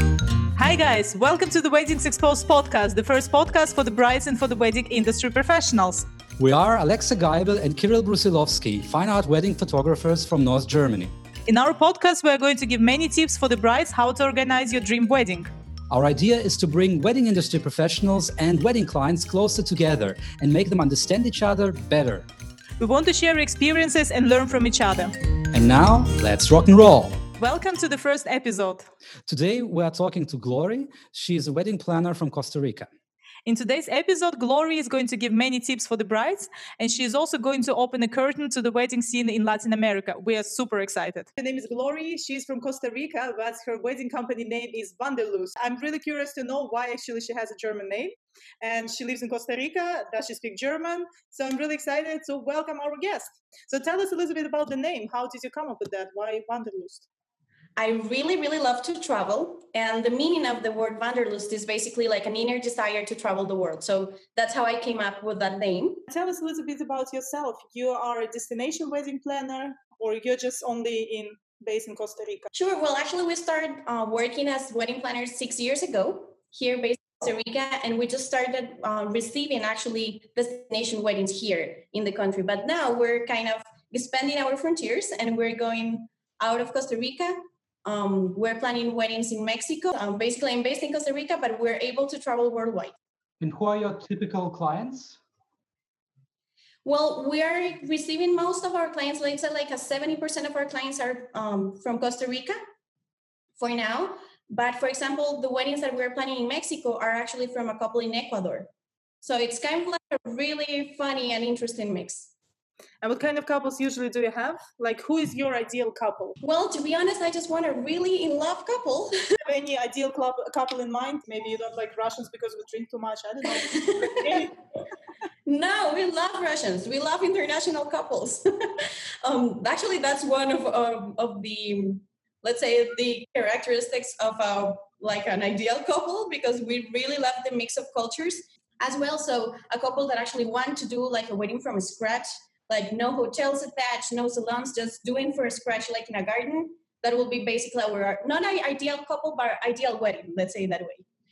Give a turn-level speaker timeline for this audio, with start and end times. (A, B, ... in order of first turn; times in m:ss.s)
0:00.6-0:06.0 A
0:06.4-0:11.1 B
0:11.5-0:15.5 A
0:15.9-0:22.3 B
0:22.8-0:25.2 A
0:25.5-0:27.2 B
0:27.4-0:28.9 A
0:29.3-0:32.9 B
0:33.4-0:57.0 A
0:57.8-1:06.0 C
1:06.1-1:12.5 A
1:12.5-1:33.0 C
1:33.4-1:35.2 B
1:36.8-1:42.6 C
1:43.6-1:48.7 C
1:49.2-1:52.3 C
1:53.0-1:56.4 A
1:56.4-1:59.2 C
1:59.4-2:04.5 A
2:03.5-2:04.5 C
2:05.4-2:31.0 C